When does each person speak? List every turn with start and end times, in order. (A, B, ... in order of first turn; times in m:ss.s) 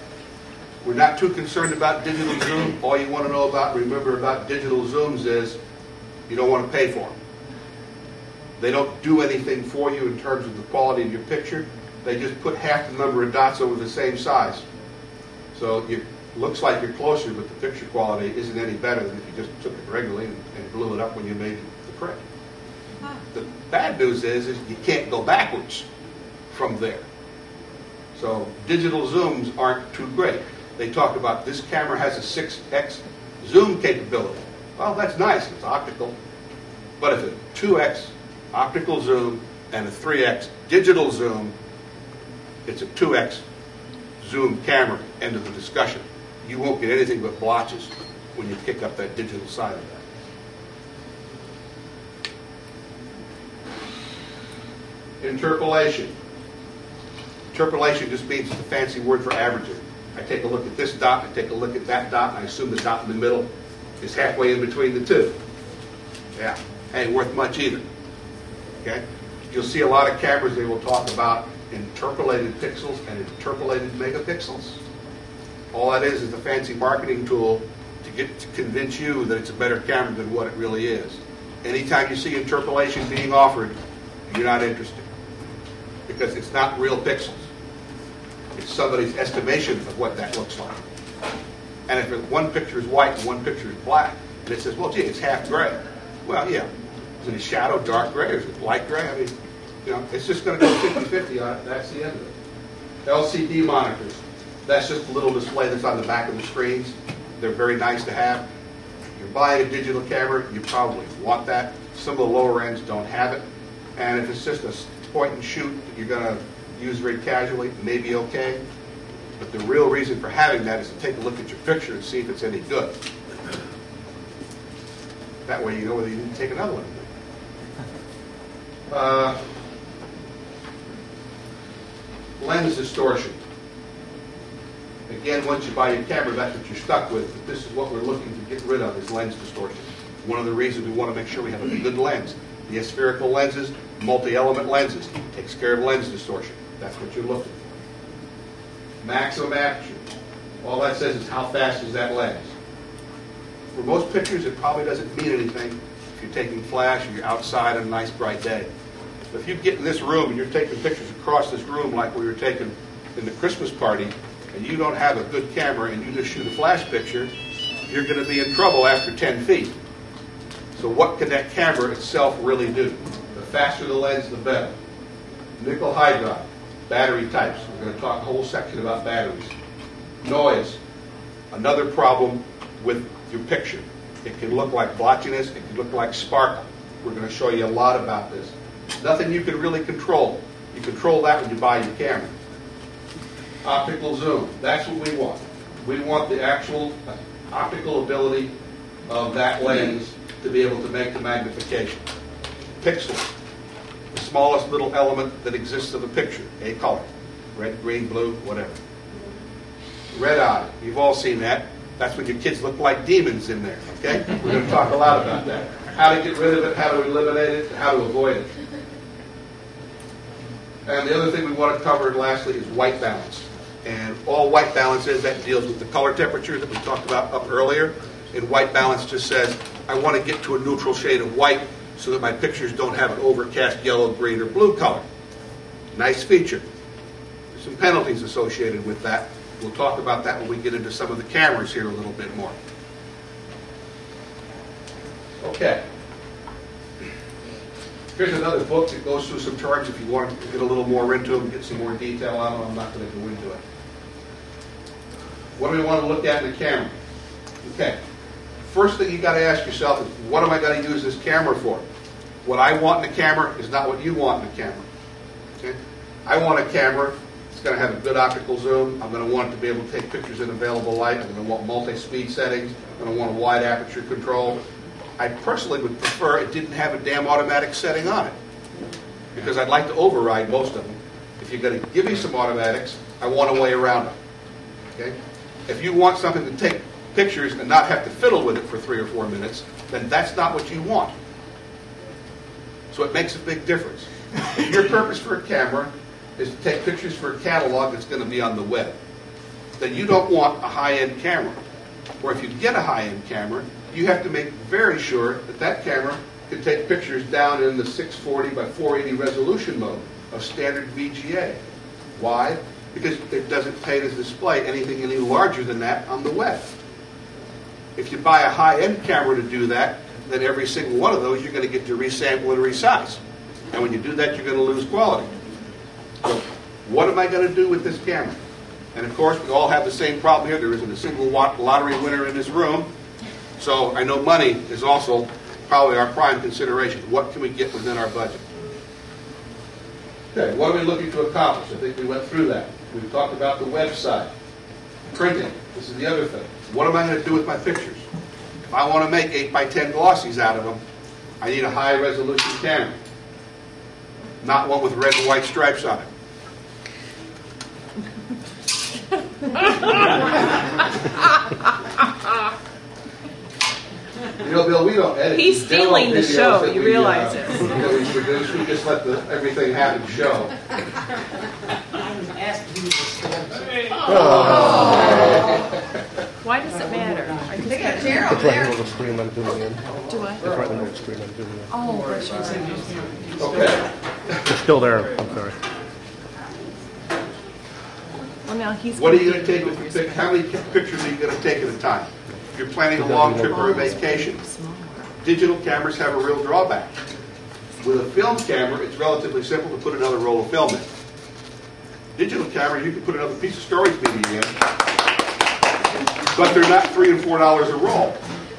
0:00.8-0:05.6 A
0:06.3-0:07.1 A
0:08.6-0:14.6 A
0:15.5-0:22.2 A
0:23.3-0:25.9 A
0:26.5-0:27.0 A
0:28.2-0:36.2 A
0:37.0-0:41.5 A
0:42.7-0:43.4 A
0:44.2-0:50.0 A
0:55.2-0:56.1 A
0:57.5-1:03.5 A
1:04.0-1:05.4 A
1:06.4-1:07.8 A
1:08.8-1:14.8 A
1:15.7-1:23.8 A
1:24.3-1:25.1 A
1:26.1-1:27.5 A
1:28.6-1:30.8 A
1:31.9-1:36.7 A
1:37.2-1:39.3 A
1:39.8-1:42.3 A
1:43.0-1:48.4 A
1:49.2-1:53.4 A
1:54.0-1:58.6 A
1:59.4-2:02.9 A
2:05.5-2:07.1 A
2:08.9-2:09.4 A
2:12.4-2:13.4 A
2:15.1-2:27.7 A
2:29.0-2:30.0 A
2:30.6-2:32.5 A
2:33.7-2:38.7 A
2:39.3-2:47.3 A
2:47.9-2:49.7 A
2:50.8-2:54.7 A
2:55.6-2:59.5 A
3:00.2-3:00.8 A
3:01.5-3:12.3 A
3:13.6-3:18.5 A
3:19.1-3:22.0 A
3:22.8-3:23.3 A
3:24.1-3:28.8 A
3:30.1-3:38.5 A
3:40.9-3:55.0 A
3:55.9-3:56.6 A
3:57.5-4:02.6 A
4:05.4-4:05.8 A
4:08.2-4:13.6 A
4:15.6-4:16.9 A
4:17.6-4:18.0 A
4:18.7-4:21.8 A
4:22.4-4:24.8 A
4:25.6-4:34.6 A
4:35.2-4:38.4 A
4:39.4-4:44.2 A
4:45.7-4:51.1 A
4:52.9-4:59.0 A
4:59.8-5:01.6 A
5:02.2-5:11.6 A
5:12.2-5:16.7 A
5:18.0-5:23.2 A
5:23.7-5:25.3 A
5:26.2-5:28.4 A
5:29.0-5:32.9 A
5:33.6-5:38.4 A
5:40.3-5:44.3 A
5:45.1-5:48.0 A
5:48.7-5:50.8 A
5:51.4-5:52.9 A
5:54.4-5:56.1 A
6:04.4-6:10.5 A
6:05.3-6:07.8 B
6:12.0-6:14.1 C
6:14.0-6:15.2 D
6:14.1-6:15.4 A
6:14.3-6:15.4 B
6:16.4-6:18.7 B
6:16.9-6:18.4 C
6:18.2-6:19.8 D
6:20.1-6:20.5 B
6:20.2-6:20.8 C
6:20.4-6:21.7 D
6:21.7-6:22.9 B
6:21.8-6:23.8 C
6:23.4-6:24.5 A
6:24.4-6:25.5 D
6:28.4-6:30.4 B
6:29.0-6:34.4 A
6:32.9-6:34.0 D
6:33.4-6:35.1 B
6:35.2-6:36.9 A
6:37.8-6:40.9 A
6:42.2-6:44.5 A
6:46.3-6:48.2 A